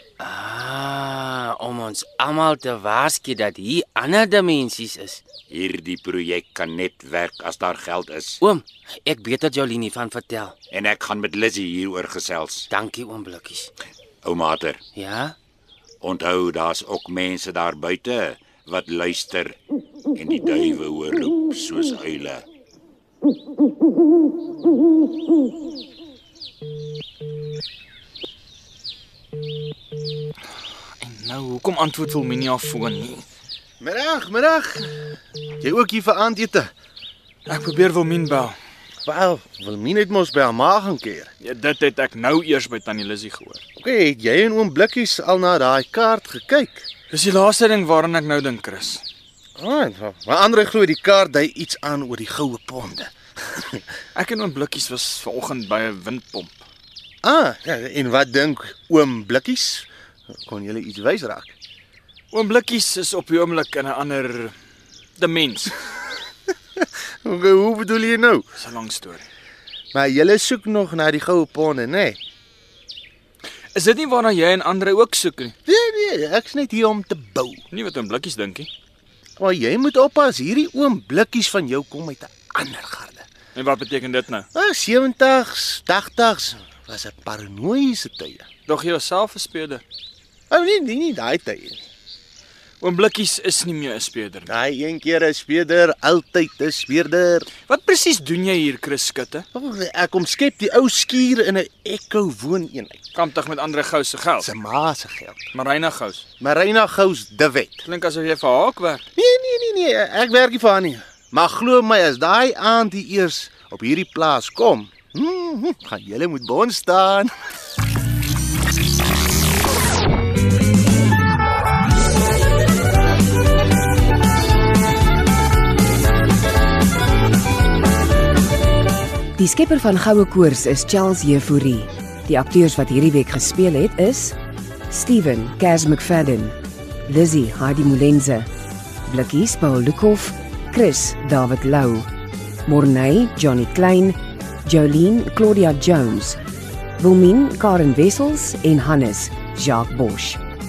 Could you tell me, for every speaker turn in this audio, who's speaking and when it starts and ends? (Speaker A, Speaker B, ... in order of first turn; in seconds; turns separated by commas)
Speaker A: 0.2-5.2, Speaker B: 5.5-8.4, Speaker A: 8.4-10.5, Speaker B: 10.7-12.7, Speaker A: 12.7-13.7, Speaker B: 14.2-14.8, Speaker A: 15.0-15.3, Speaker B: 16.0-19.6, Speaker B: 20.1-22.4, Speaker C: 31.0-33.2, Speaker D: 33.8-34.9, Speaker D: 35.6-36.7, Speaker C: 37.5-38.6, Speaker D: 39.0-41.3, Speaker C: 41.4-43.6, Speaker D: 43.8-46.9, Speaker C: 47.1-49.0, Speaker D: 49.6-53.8, Speaker C: 54.1-56.6, Speaker D: 57.2-59.9, Speaker D: 60.4-61.5, Speaker C: 62.3-64.6, Speaker C: 65.2-65.8, Speaker D: 66.8-68.5, Speaker C: 68.6-69.3, Speaker D: 69.9-72.2, Speaker C: 73.7-75.5, Speaker D: 75.7-77.6, Speaker C: 77.7-78.7, Speaker D: 79.4-83.3, Speaker C: 83.5-84.5, Speaker D: 84.5-88.5, Speaker C: 88.7-89.8, Speaker D: 90.5-91.8, Speaker C: 92.8-94.5, Speaker D: 94.5-97.5, Speaker C: 97.7-99.5, Speaker D: 99.5-103.0, Speaker C: 103.2-104.5, Speaker D: 104.4-105.4, Speaker C: 105.5-106.2, Speaker D: 106.4-107.8, Speaker C: 107.8-109.0, Speaker D: 109.2-117.3, Speaker E: 129.4-134.3, Speaker E: 134.9-136.6, Speaker E: 137.1-138.5, Speaker E: 139.1-142.1, Speaker E: 142.7-146.4, Speaker E: 147.0-150.4